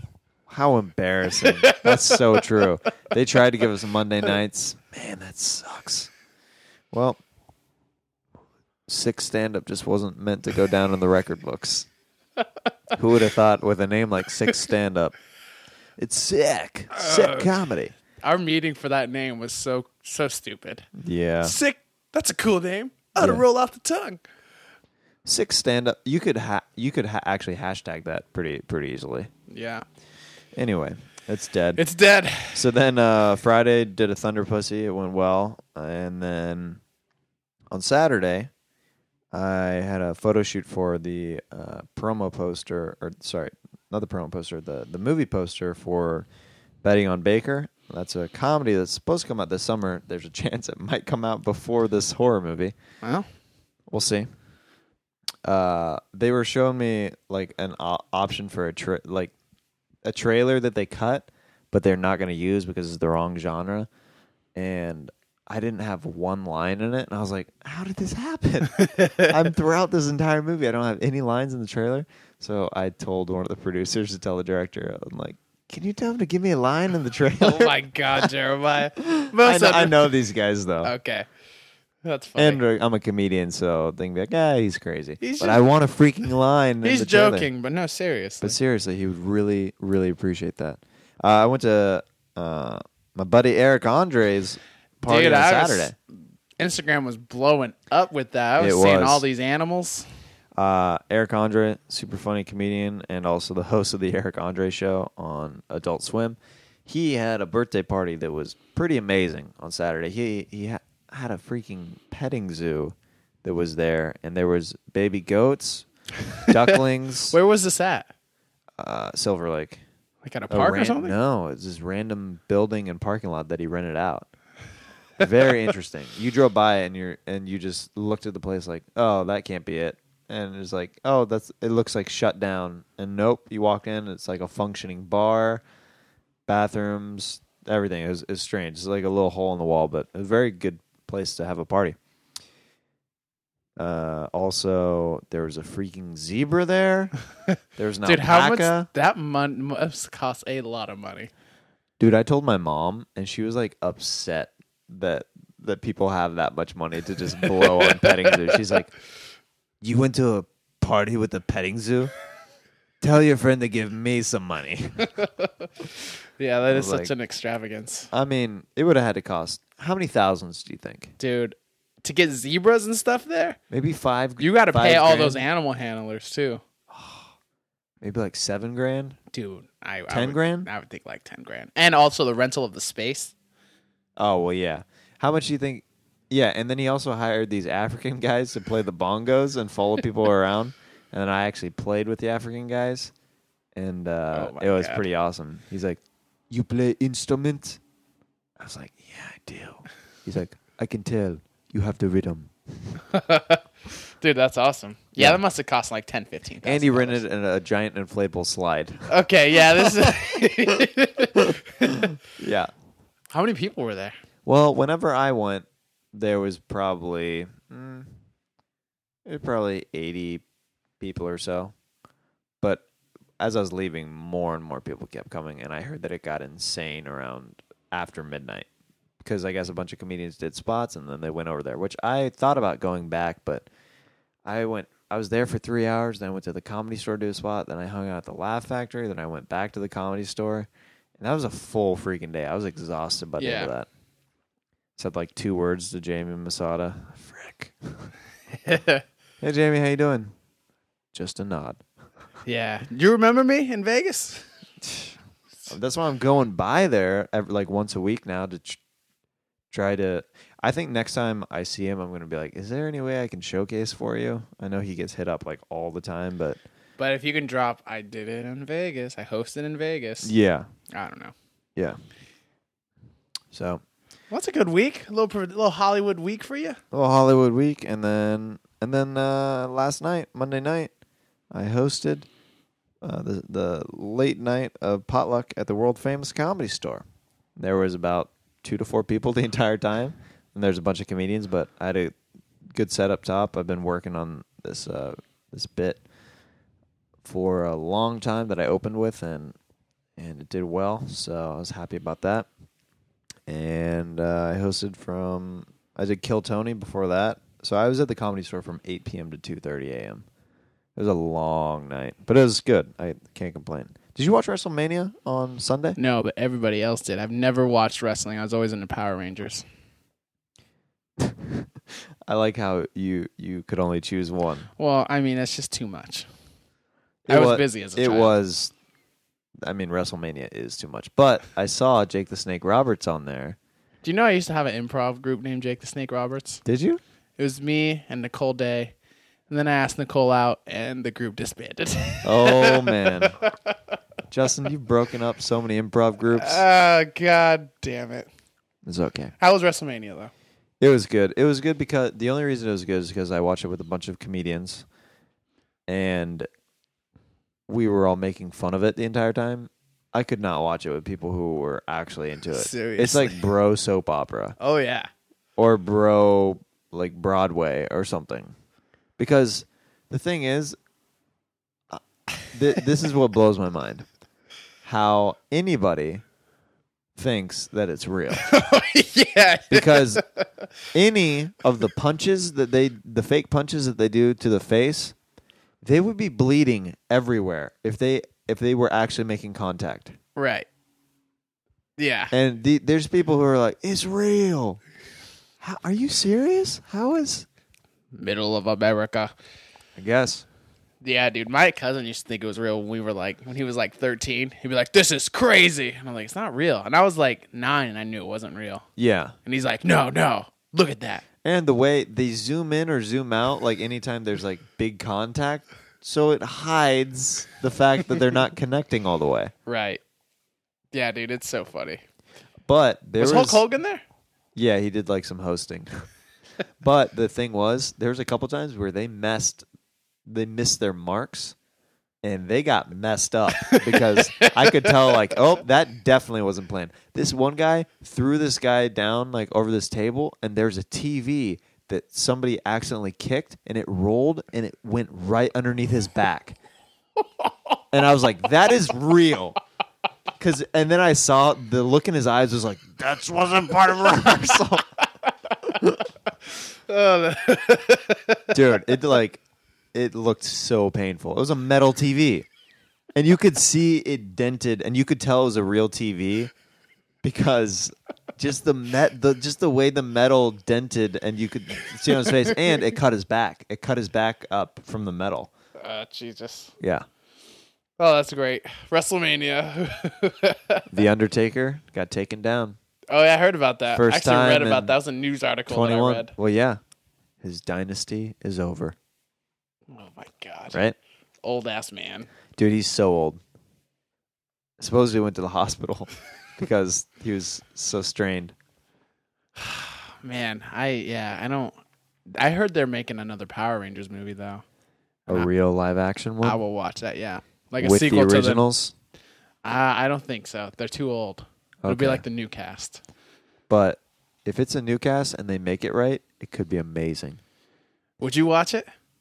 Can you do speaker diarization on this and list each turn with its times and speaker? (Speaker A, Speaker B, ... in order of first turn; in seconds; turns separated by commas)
Speaker A: 0.5-6.1, Speaker B: 1.4-2.4, Speaker A: 6.9-7.2, Speaker A: 8.9-11.9, Speaker A: 12.9-15.2, Speaker A: 16.0-17.9, Speaker B: 16.9-17.6, Speaker B: 18.2-20.9, Speaker A: 20.9-21.6, Speaker B: 21.4-24.2, Speaker A: 23.1-23.4, Speaker A: 25.2-29.3, Speaker B: 29.5-29.8, Speaker A: 30.5-31.8, Speaker B: 31.8-32.6, Speaker A: 32.5-36.8, Speaker A: 37.7-38.5, Speaker A: 39.3-46.3, Speaker A: 46.8-52.7, Speaker A: 53.9-54.3, Speaker A: 55.4-59.3, Speaker A: 60.0-63.9, Speaker A: 64.5-78.3, Speaker B: 68.8-69.3, Speaker B: 77.4-80.1, Speaker A: 79.0-80.9, Speaker B: 80.8-81.3, Speaker B: 82.0-82.6, Speaker A: 82.4-87.5, Speaker B: 85.2-85.6, Speaker B: 86.8-88.5, Speaker A: 88.4-95.9, Speaker B: 95.0-95.9, Speaker B: 96.6-100.0, Speaker A: 98.6-99.2, Speaker A: 100.5-115.8, Speaker A: 116.5-117.4, Speaker B: 117.3-118.1, Speaker A: 118.8-119.8, Speaker B: 120.2-121.1, Speaker A: 120.5-124.3, Speaker A: 125.2-135.6, Speaker A: 136.5-142.0, Speaker A: 143.8-147.1, Speaker A: 147.8-148.9, Speaker B: 148.0-151.3, Speaker A: 152.0-158.9, Speaker B: 157.8-158.3, Speaker A: 159.8-162.1, Speaker A: 163.0-165.1, Speaker B: 165.1-165.7, Speaker B: 166.4-168.1, Speaker A: 166.7-167.1, Speaker A: 168.1-171.1, Speaker B: 171.2-173.6, Speaker A: 173.7-175.4, Speaker B: 174.4-176.6, Speaker A: 176.9-177.3, Speaker A: 178.0-179.2, Speaker B: 179.3-183.3, Speaker A: 180.1-180.7, Speaker A: 184.2-193.1, Speaker A: 193.7-196.0, Speaker B: 194.3-195.0, Speaker A: 196.5-197.8, Speaker A: 198.6-203.0, Speaker B: 203.1-203.6, Speaker B: 204.2-207.2, Speaker A: 205.2-205.4, Speaker A: 206.6-209.1, Speaker B: 209.1-212.0, Speaker A: 209.7-210.4, Speaker A: 211.3-212.7, Speaker B: 213.3-214.1, Speaker A: 214.4-218.1, Speaker A: 219.2-220.4, Speaker A: 221.0-221.7, Speaker A: 223.4-228.7, Speaker A: 229.2-233.7, Speaker A: 234.4-243.9, Speaker B: 243.4-243.7, Speaker A: 245.0-248.1, Speaker B: 248.6-249.0, Speaker A: 249.4-250.3, Speaker A: 251.1-251.8, Speaker B: 252.4-254.5, Speaker A: 255.7-258.8, Speaker A: 259.7-266.6, Speaker B: 267.0-270.3, Speaker A: 270.2-270.7, Speaker B: 270.9-271.3, Speaker A: 273.5-273.8, Speaker B: 274.3-276.8, Speaker A: 276.9-280.9, Speaker A: 281.5-282.3, Speaker A: 283.0-287.0, Speaker A: 287.6-292.1, Speaker A: 292.7-296.0, Speaker A: 297.2-299.5, Speaker A: 300.2-302.5, Speaker A: 303.5-310.2, Speaker A: 310.9-316.0, Speaker B: 316.0-319.6, Speaker A: 321.2-321.7, Speaker A: 322.3-324.7, Speaker B: 324.8-326.3, Speaker A: 327.2-328.7, Speaker B: 327.3-328.3, Speaker A: 329.6-333.6, Speaker B: 334.0-336.6, Speaker A: 336.6-337.0, Speaker B: 337.4-338.9, Speaker B: 339.5-343.7, Speaker A: 342.2-343.4, Speaker A: 344.3-346.6, Speaker B: 346.3-348.3, Speaker A: 348.8-349.3, Speaker B: 349.4-350.3, Speaker A: 350.8-354.8, Speaker A: 355.9-356.5, Speaker A: 357.7-364.6, Speaker B: 362.5-363.4, Speaker B: 364.6-365.1, Speaker A: 365.6-368.5, Speaker A: 369.2-370.8, Speaker A: 371.9-374.1, Speaker A: 374.8-376.2, Speaker A: 377.1-378.5, Speaker B: 378.3-380.7, Speaker A: 379.7-380.2, Speaker A: 380.9-385.1, Speaker A: 385.8-390.1, Speaker B: 390.4-390.7, Speaker B: 392.0-392.3, Speaker A: 392.3-394.8, Speaker A: 395.6-397.5, Speaker B: 398.1-399.3, Speaker A: 400.0-400.4, Speaker B: 401.0-408.8, Speaker A: 408.9-409.3, Speaker B: 409.4-411.2, Speaker A: 411.4-419.5, Speaker B: 419.6-420.0, Speaker B: 420.9-422.0, Speaker A: 422.6-423.6, Speaker B: 423.2-424.0, Speaker A: 424.5-426.1, Speaker A: 426.8-429.6, Speaker A: 430.2-431.5, Speaker A: 432.2-446.6, Speaker B: 433.6-435.2, Speaker A: 447.9-449.6, Speaker A: 450.4-454.9, Speaker B: 456.9-458.5, Speaker A: 458.5-459.4, Speaker A: 459.9-462.4, Speaker A: 463.1-466.5, Speaker A: 467.2-475.5, Speaker B: 475.8-476.7, Speaker A: 476.8-477.0, Speaker B: 478.0-480.9, Speaker A: 480.9-482.8, Speaker B: 483.1-486.3, Speaker A: 483.9-484.9, Speaker A: 485.7-486.8, Speaker A: 487.4-488.9, Speaker B: 489.9-490.8, Speaker A: 490.7-490.9, Speaker B: 491.4-492.3, Speaker A: 492.6-493.4, Speaker A: 494.8-498.5, Speaker B: 499.6-501.8, Speaker B: 502.3-504.6, Speaker A: 505.3-506.6, Speaker B: 506.4-508.6, Speaker A: 507.8-508.9, Speaker B: 509.6-513.0, Speaker A: 511.8-512.2, Speaker A: 513.7-517.4, Speaker B: 518.2-518.9